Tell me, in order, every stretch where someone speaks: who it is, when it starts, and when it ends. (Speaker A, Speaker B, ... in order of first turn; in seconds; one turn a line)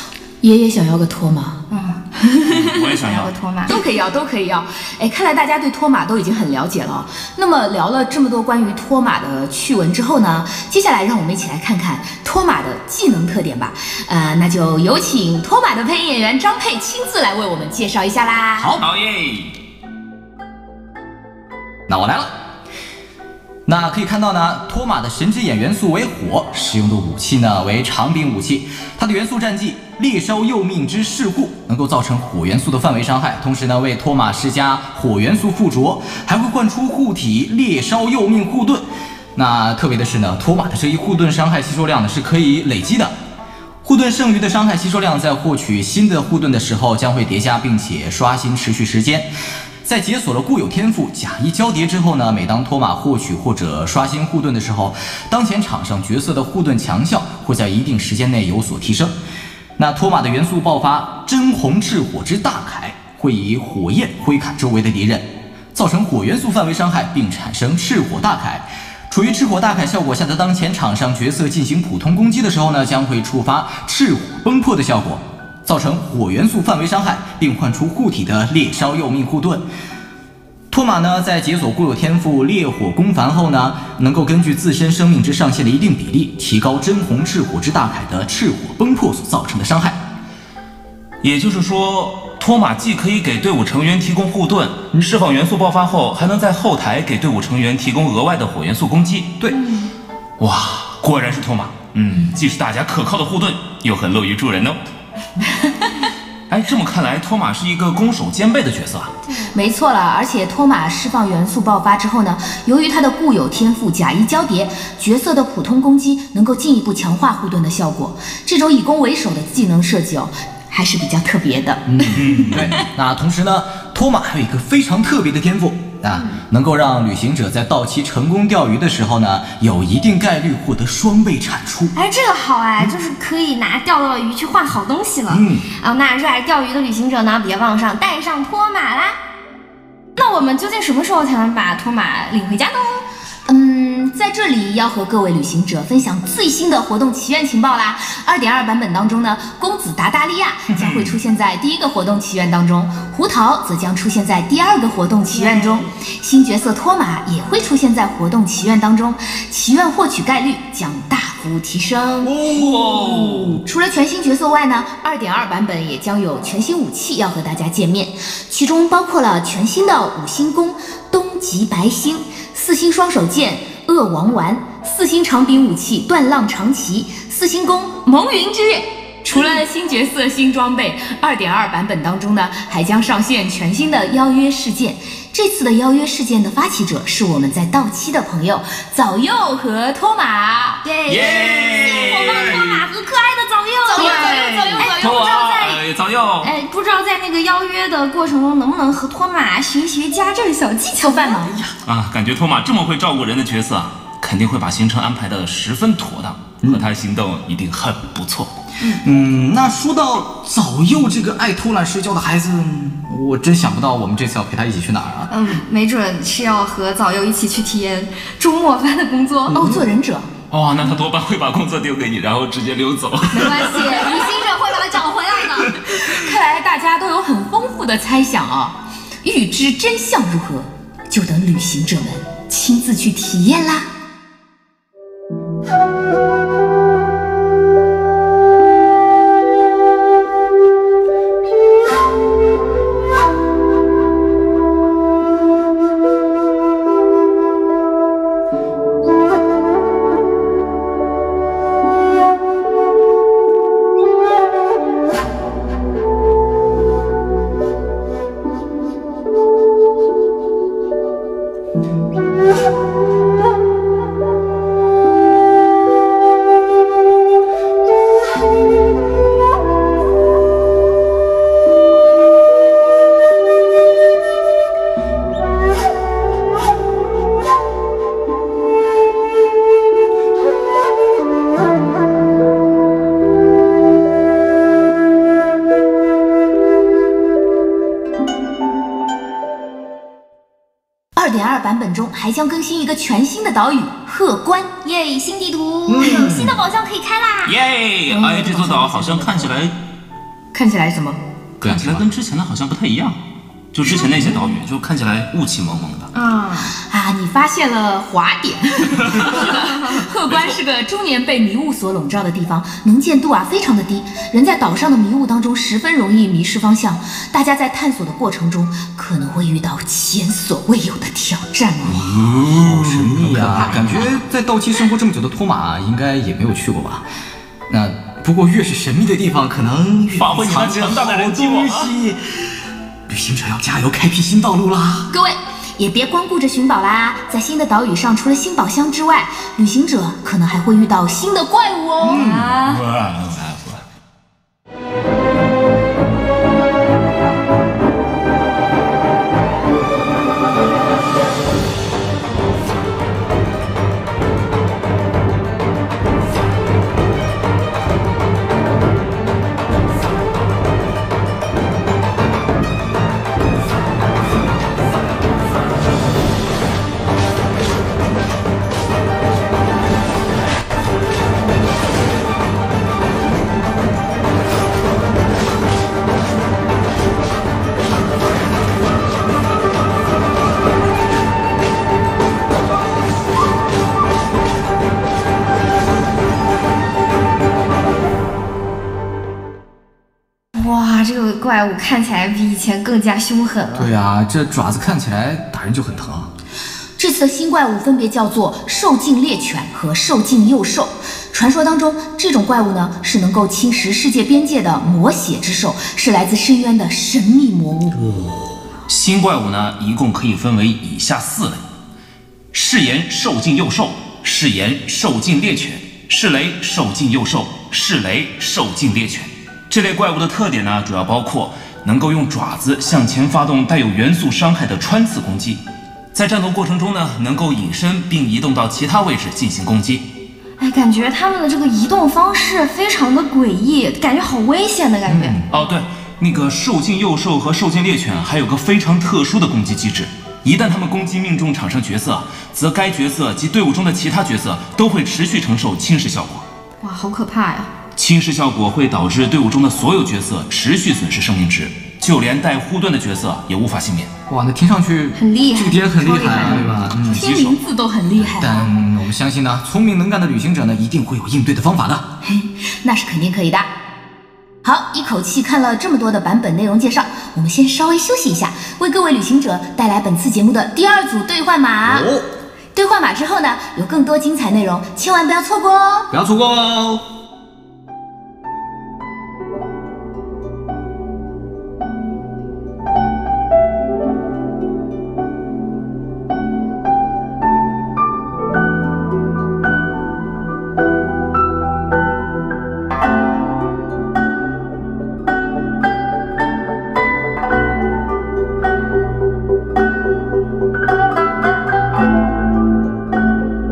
Speaker A: 0.4-1.6
Speaker B: 1.7-3.8
Speaker C: 2.5-3.3
Speaker A: 3.7-18.7
Speaker D: 18.6-18.8
Speaker C: 18.8-19.5
Speaker D: 21.9-22.3
Speaker D: 23.7-38.8
Speaker D: 39.4-43.1
Speaker D: 43.8-49.3
Speaker D: 49.8-59.1
Speaker D: 59.8-79.6
Speaker D: 80.7-90.0
Speaker C: 91.2-99.4
Speaker B: 99.5-99.9
Speaker C: 100.4-104.8
Speaker C: 106.5-109.1
Speaker B: 109.3-109.5
Speaker A: 109.5-122.4
Speaker D: 121.9-131.9
Speaker C: 122.2-122.8
Speaker B: 132.0-139.2
Speaker D: 135.3-135.6
Speaker B: 140.2-143.0
Speaker A: 143.5-162.4
Speaker C: 150.7-151.2
Speaker B: 155.3-155.9
Speaker C: 162.2-163.6
Speaker A: 163.6-190.8
Speaker B: 190.8-195.8
Speaker C: 191.1-192.9
Speaker A: 193.9-195.5
Speaker C: 194.0-196.5
Speaker B: 196.4-201.6
Speaker A: 201.0-201.6
Speaker C: 201.9-208.5
Speaker D: 206.6-206.9
Speaker D: 209.0-215.3
Speaker B: 215.3-219.8
Speaker A: 219.5-220.3
Speaker D: 219.5-219.8
Speaker C: 220.5-224.4
Speaker B: 223.3-225.8
Speaker A: 226.0-233.9
Speaker A: 291.2-294.8
Speaker B: 294.8-297.6
Speaker D: 295.9-296.6
Speaker A: 296.0-296.4
Speaker C: 297.4-299.7
Speaker A: 298.1-299.5
Speaker A: 300.5-301.2
Speaker C: 301.6-303.2
Speaker D: 301.6-302.1
Speaker C: 303.7-306.1
Speaker B: 303.9-304.6
Speaker B: 306.1-306.8
Speaker A: 306.8-322.3
Speaker C: 309.1-309.4
Speaker D: 321.9-327.0
Speaker C: 322.4-324.1
Speaker D: 327.7-335.1
Speaker C: 330.2-331.9
Speaker A: 335.1-342.2
Speaker D: 342.0-342.6
Speaker B: 342.1-342.8
Speaker C: 342.6-343.8
Speaker B: 390.6-393.9
Speaker D: 393.8-396.3
Speaker A: 397.0-408.0
Speaker C: 408.9-411.6
Speaker C: 412.5-425.6
Speaker C: 426.1-430.1
Speaker B: 430.6-435.4
Speaker D: 435.1-435.4
Speaker C: 435.5-446.4
Speaker B: 446.8-447.7
Speaker C: 448.0-454.1
Speaker D: 454.3-457.2
Speaker B: 455.2-456.7
Speaker C: 456.6-457.6
Speaker A: 457.1-458.7
Speaker D: 458.2-462.1
Speaker A: 462.2-463.7
Speaker A: 464.6-472.1
Speaker D: 471.9-472.3
Speaker A: 472.8-476.1
Speaker D: 476.1-477.0